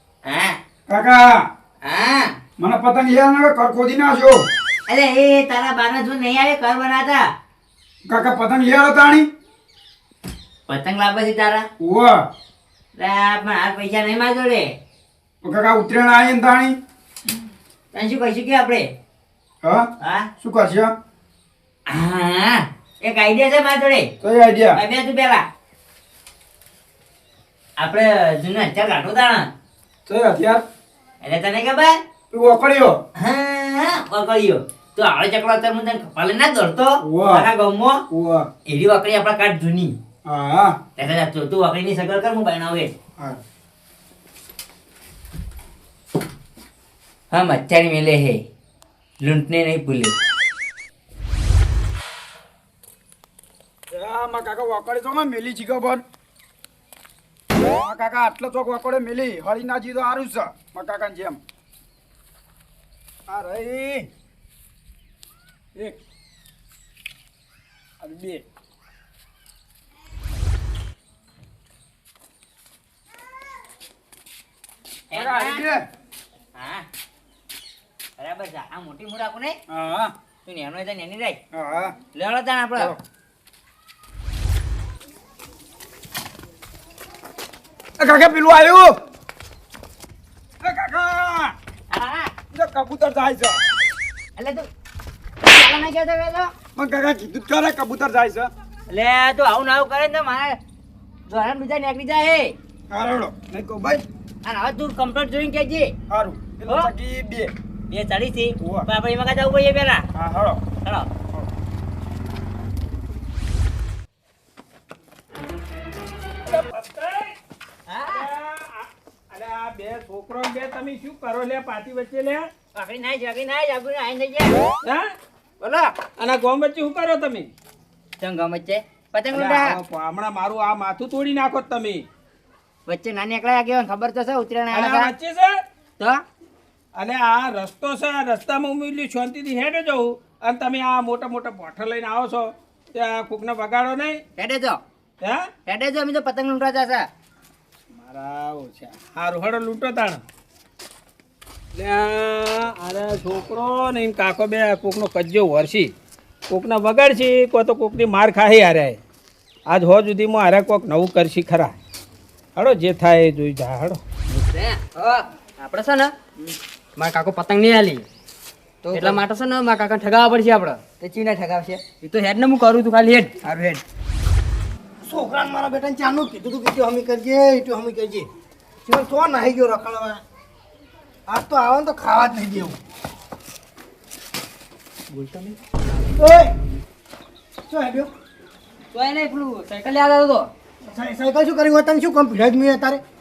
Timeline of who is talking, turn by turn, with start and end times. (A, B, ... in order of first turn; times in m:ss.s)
0:00.2-0:00.6 A
0:00.9-0:01.4 B
0:01.8-0:02.3 A
0:02.6-0:04.5 B
0:04.9-0:07.2 A
0:08.0-0:09.3 B
0:10.7-0:11.6 A
0:11.8-0:12.2 B
0:13.0-0:14.6 A
0:15.4-0:16.8 B
0:17.9-0:18.9 A
0:19.6-0:19.9 B
0:20.0-0:20.3 A
0:20.4-0:20.9 B
0:21.9-0:24.1 A
0:24.2-0:24.8 B
0:24.8-0:25.4 A
0:27.8-0:29.5 A
0:30.1-0:30.6 B
0:31.2-0:32.0 A
0:32.3-0:33.0 B
0:33.2-0:38.0 A
0:37.0-0:37.5 B
0:38.1-0:38.5 B
0:38.7-0:40.0 A
0:40.2-0:40.8 B
0:41.0-0:42.9 A
0:47.3-0:48.4 A
0:49.2-0:50.1 A
0:53.9-0:56.0 B
0:57.8-1:01.4 B
1:03.3-1:04.1 B
1:08.0-1:08.4 B
1:15.1-1:15.6 A
1:15.1-1:15.9 B
1:16.6-1:16.8 A
1:18.2-1:19.6 A
1:19.7-1:20.1 B
1:20.4-1:21.4 A
1:21.5-1:21.9 B
1:22.1-1:22.9 A
1:28.0-1:29.0 B
1:30.6-1:31.5 B
1:31.9-1:32.3 A
1:32.5-1:33.6 B
1:34.4-1:34.7 A
1:35.4-1:36.5 A
1:36.8-1:38.5 B
1:38.9-1:40.6 A
1:41.3-1:42.5 A
1:42.9-1:44.0 B
1:44.4-1:45.9 A
1:46.1-1:47.5 B
1:47.9-1:50.0 A
1:48.6-1:48.9 B
1:50.1-1:50.6 B
1:50.8-1:51.1 A
1:56.5-1:57.3 C
1:57.9-1:58.2 A
1:58.1-2:02.4 C
2:02.7-2:04.6 A
2:05.6-2:05.9 A
2:06.2-2:07.5 C
2:08.2-2:09.8 A
2:09.3-2:12.0 C
2:12.9-2:15.1 A
2:14.7-2:15.6 C
2:16.9-2:24.2 C
2:24.4-2:24.8 A
2:25.2-2:25.5 C
2:25.7-2:27.0 A
2:27.9-2:30.2 C
2:31.8-2:35.9 C
2:36.5-2:39.0 C
2:39.7-2:41.8 C
2:42.6-2:44.0 C
2:44.3-2:46.1 D
2:47.0-2:48.0 D
2:48.8-2:49.1 A
2:48.9-2:50.8 D
2:51.0-2:51.8 A
2:52.0-2:53.4 D
2:53.5-2:53.8 A
2:55.0-2:58.3 E
2:58.8-3:00.2 E
3:01.3-3:02.8 E
3:05.1-3:05.6 D
3:06.2-3:06.5 E
3:07.7-3:08.1 E
3:08.9-3:10.5 D
3:10.9-3:13.0 E